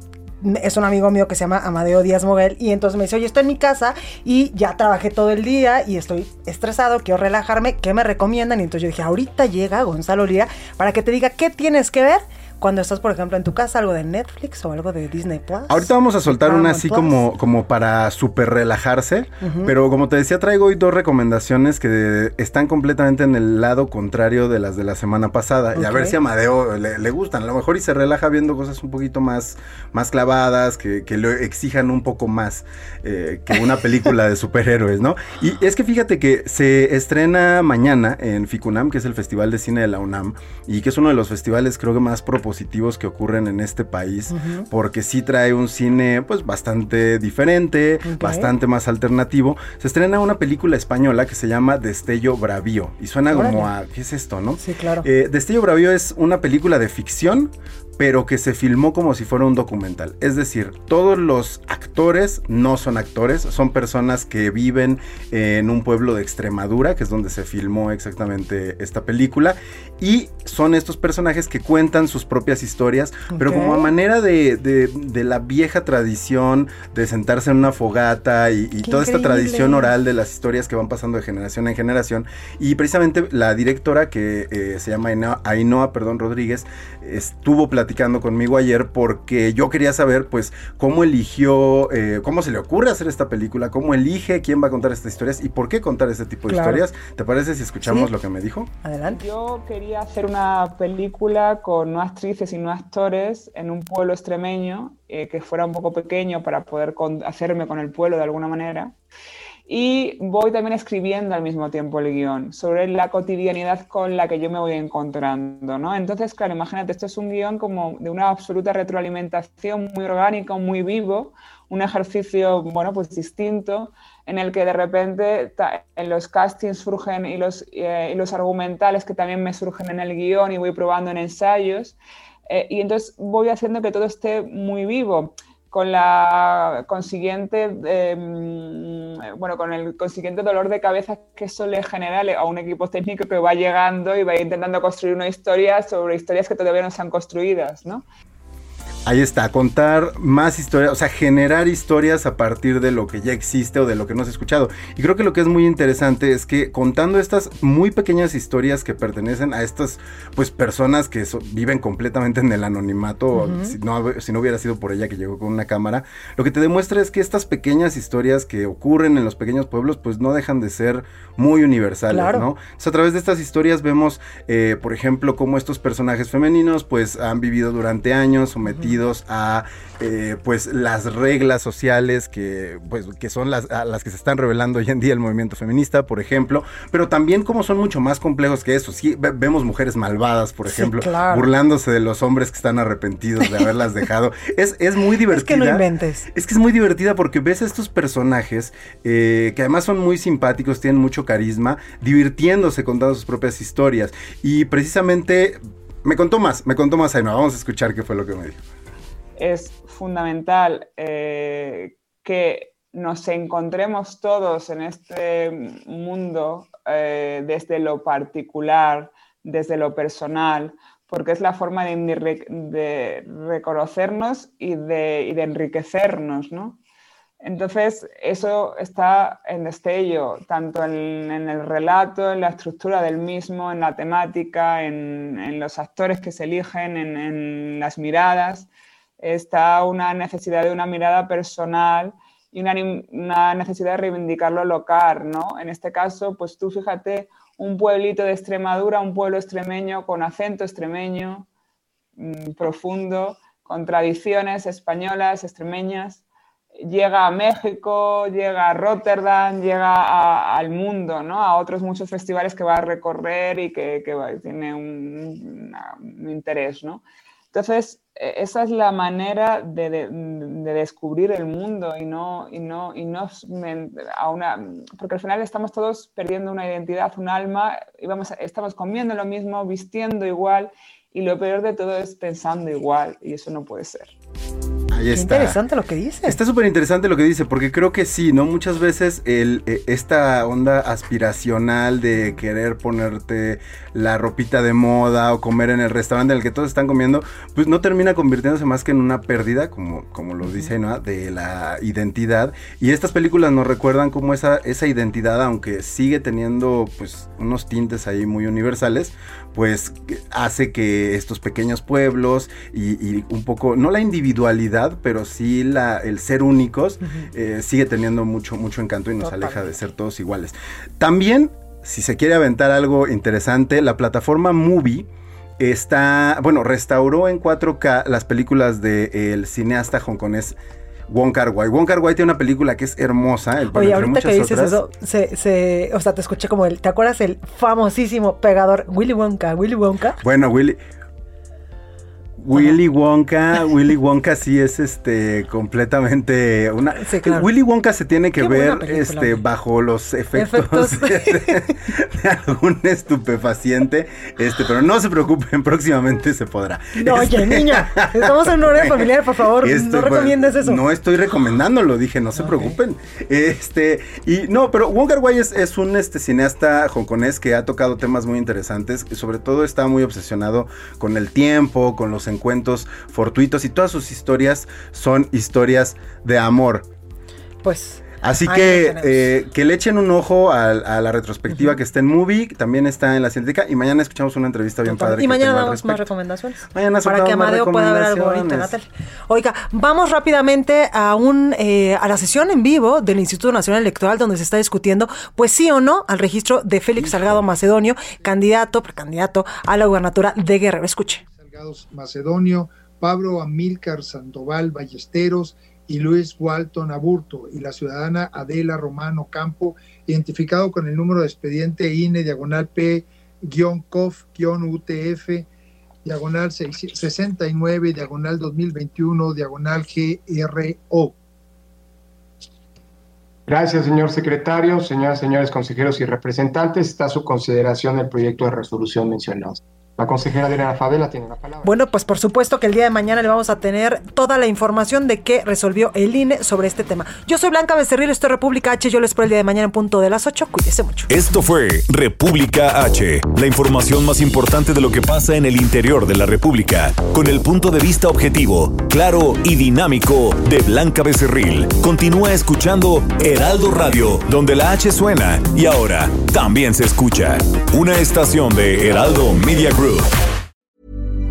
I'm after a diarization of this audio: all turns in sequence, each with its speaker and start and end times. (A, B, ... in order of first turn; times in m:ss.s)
0:00.4-0:17.2 A
0:15.7-1:38.7 B
0:19.4-0:19.7 A
0:25.7-0:26.2 A
0:44.3-0:44.6 A
0:48.0-0:48.5 A
0:53.3-0:53.7 A
0:54.6-0:55.0 A
1:13.3-1:13.9 A
1:18.8-1:19.9 A
1:36.5-1:36.8 A
1:37.8-1:38.1 A
1:38.8-1:39.2 A
1:39.1-1:48.9 C
1:49.7-2:12.0 C
2:12.5-2:28.0 C
2:29.0-3:28.6 B
2:43.3-2:43.7 A
2:52.1-2:52.5 A
3:10.7-3:11.5 A
3:15.3-3:16.2 A
3:29.4-3:46.8 C
3:47.4-3:58.7 C
3:59.2-4:11.5 C
4:12.2-4:16.2 C
4:16.8-4:44.2 C
4:44.9-4:45.6 B
4:45.1-4:46.4 A
4:46.2-5:25.1 B
5:00.4-5:00.7 A
5:19.2-5:19.6 A
5:25.6-5:30.6 B
5:31.1-5:34.8 B
5:33.7-5:40.2 A
5:40.2-5:40.8 B
5:42.4-6:16.9 B
5:42.5-5:42.8 A
5:47.0-5:47.5 A
5:48.4-5:49.4 A
5:50.3-5:51.6 A
5:57.0-6:00.8 A
6:02.4-6:02.8 A
6:17.6-6:19.3 A
6:18.2-6:26.1 B
6:24.8-6:41.2 A
6:26.7-6:28.7 B
6:37.0-6:37.5 B
6:41.2-6:55.5 D
6:56.0-7:01.2 D
7:03.5-7:11.7 E
7:11.6-7:21.1 A
7:21.1-7:40.1 F